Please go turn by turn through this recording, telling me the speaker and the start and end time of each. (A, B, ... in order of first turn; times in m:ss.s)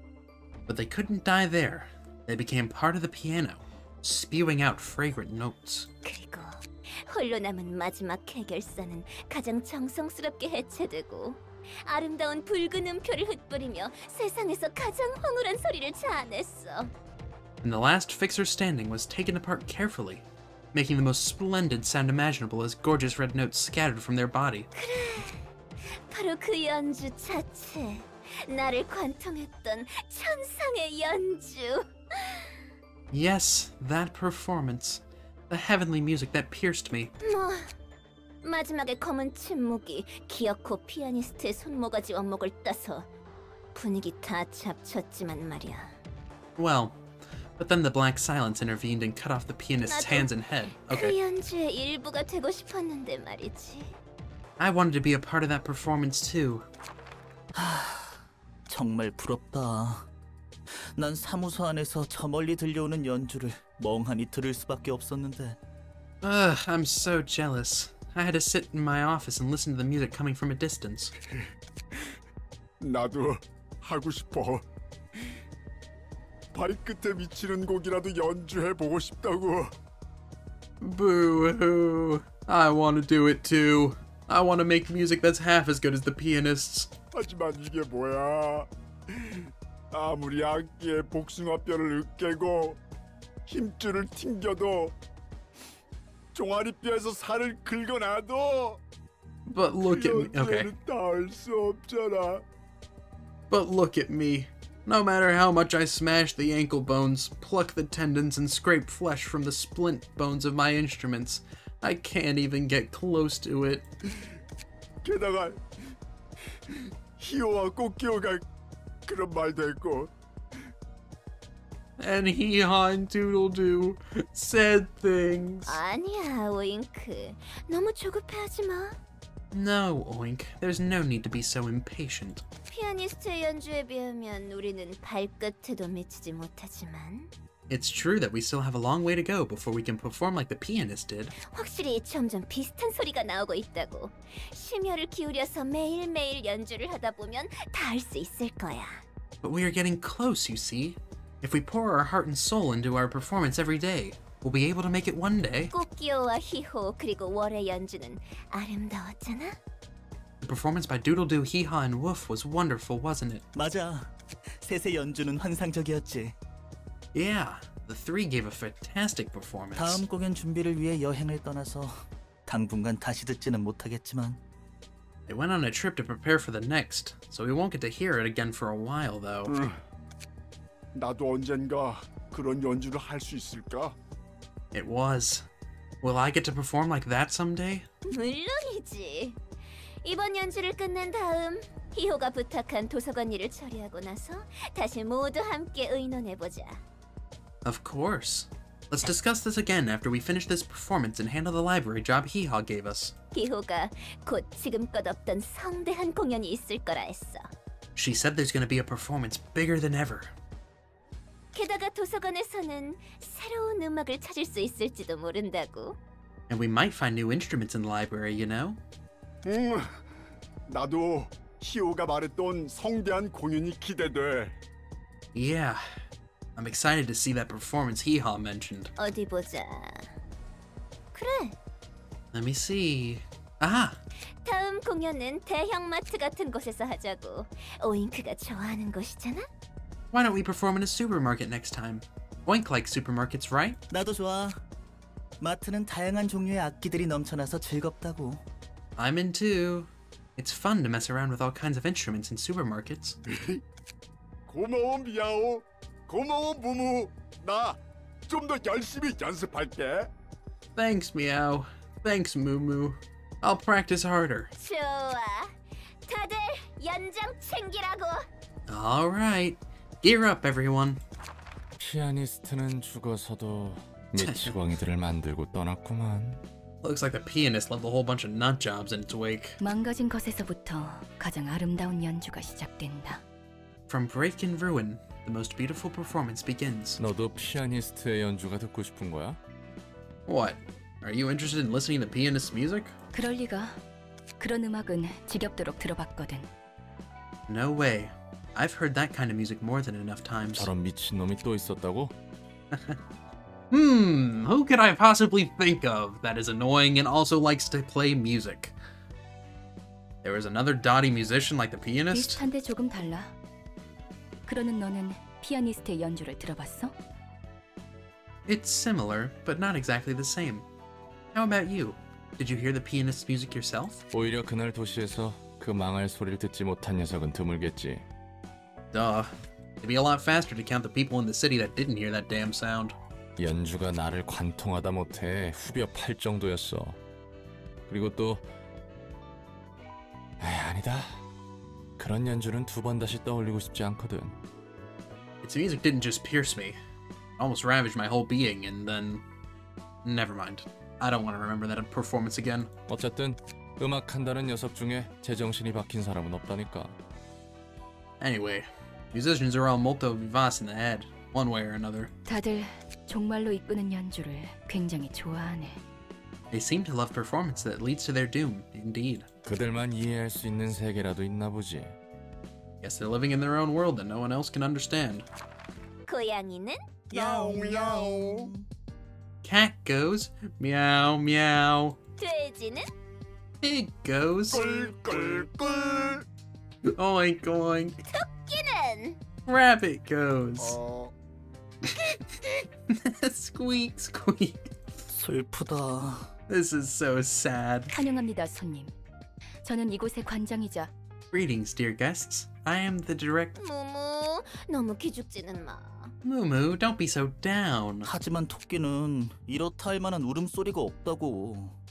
0:00.7-0:05.9 A
0:06.0-0:16.9 B
0:17.6-0:24.7 A
0:24.8-0:32.5 B
0:33.1-0:37.1 A
0:37.2-0:37.7 B
0:38.4-0:43.1 B
0:43.7-0:45.9 B
0:46.6-0:47.0 A
0:47.6-0:51.2 A
0:49.8-0:50.3 B
0:50.9-0:53.9 B
0:54.6-0:56.6 A
0:57.6-1:00.1 C
1:00.9-1:05.6 C
1:06.2-1:11.1 A
1:12.8-1:14.6 D
1:16.5-1:19.7 D
1:20.8-1:26.9 A
1:27.1-1:32.8 D
1:33.4-1:34.9 D
1:36.3-1:38.8 D
1:39.5-1:40.7 A
1:39.8-1:42.4 D
1:43.5-1:53.8 A
1:55.0-1:55.6 D
1:56.7-1:58.4 D
1:59.0-2:00.1 D
2:02.0-2:05.8 A
2:05.6-2:09.0 B
2:09.5-2:12.4 A
2:12.7-2:17.3 B
2:17.7-2:21.3 A
2:21.4-2:29.0 B
2:29.4-2:35.7 A
2:35.7-2:39.6 B
2:40.4-2:43.4 A
2:43.5-2:44.1 C
2:44.6-2:46.3 C
2:47.1-2:50.0 A
2:49.8-2:52.0 C
2:52.5-2:54.4 C
2:55.3-2:59.6 A
2:59.5-2:59.8 D
3:00.9-3:04.0 D
3:04.7-3:05.4 A
3:06.0-3:07.8 A
3:08.1-3:09.4 B
3:10.0-3:16.8 B
3:17.6-3:23.1 A
3:23.3-3:27.5 B
3:28.0-3:30.3 A
3:31.5-3:36.0 B
3:36.5-3:38.8 A
3:39.4-3:40.0 D
3:40.7-3:44.6 D
3:45.3-3:45.8 A
3:46.6-3:48.9 A
3:49.0-3:50.1 B
3:51.1-3:51.6 B
3:52.3-3:54.0 A
3:54.4-3:59.4 B
4:00.1-4:03.8 A
4:03.9-4:04.6 C
4:05.4-4:08.4 C
4:09.0-4:13.2 A
4:13.3-4:13.6 D
4:14.5-4:20.1 D
4:20.8-4:24.5 A
4:24.6-4:25.5 B
4:26.0-4:28.2 B
4:28.7-4:31.0 A
4:31.8-4:36.4 E
4:34.2-4:34.6 A
4:36.8-4:39.6 A
4:39.6-4:43.2 F
4:43.9-4:47.0 A
4:47.0-4:49.4 E
4:50.3-4:52.9 A
4:53.1-4:53.8 F
4:54.4-4:56.5 F
4:57.5-5:00.7 A
5:00.6-5:02.1 E
5:02.7-5:03.0 A
5:03.7-5:08.7 A
5:10.2-5:12.4 A
5:12.1-5:13.3 F
5:14.4-5:16.9 F
5:18.5-5:20.6 A
5:21.3-5:24.0 A
5:24.1-5:28.0 E
5:28.9-5:29.3 A
5:29.8-5:32.9 A
5:33.4-5:37.0 E
5:37.9-5:38.4 E
5:40.4-5:41.2 E
5:42.0-5:44.3 E
5:45.4-5:46.8 A
5:47.4-5:49.2 A
5:50.0-5:52.7 A
5:52.9-5:56.9 E
5:58.2-6:02.1 A
6:02.3-6:05.8 F
6:06.5-6:09.2 A
6:09.4-6:11.9 E
6:12.8-6:15.2 A
6:16.1-6:18.1 B
6:17.1-6:18.6 C
6:18.1-6:18.4 D
6:19.4-6:22.0 A
6:22.2-6:22.9 B
6:23.6-6:25.5 A
6:24.5-6:26.2 D
6:26.8-6:28.0 A
6:28.1-6:29.2 B
6:29.4-6:30.8 A
6:30.6-6:31.1 D
6:31.8-6:32.2 A
6:32.9-6:34.7 A
6:35.1-6:36.3 C
6:36.5-6:37.9 A
6:37.9-6:38.9 F
6:39.6-6:40.9 F
6:41.3-6:43.5 A
6:43.6-6:46.1 B
6:46.2-6:48.1 A
6:48.0-6:51.7 C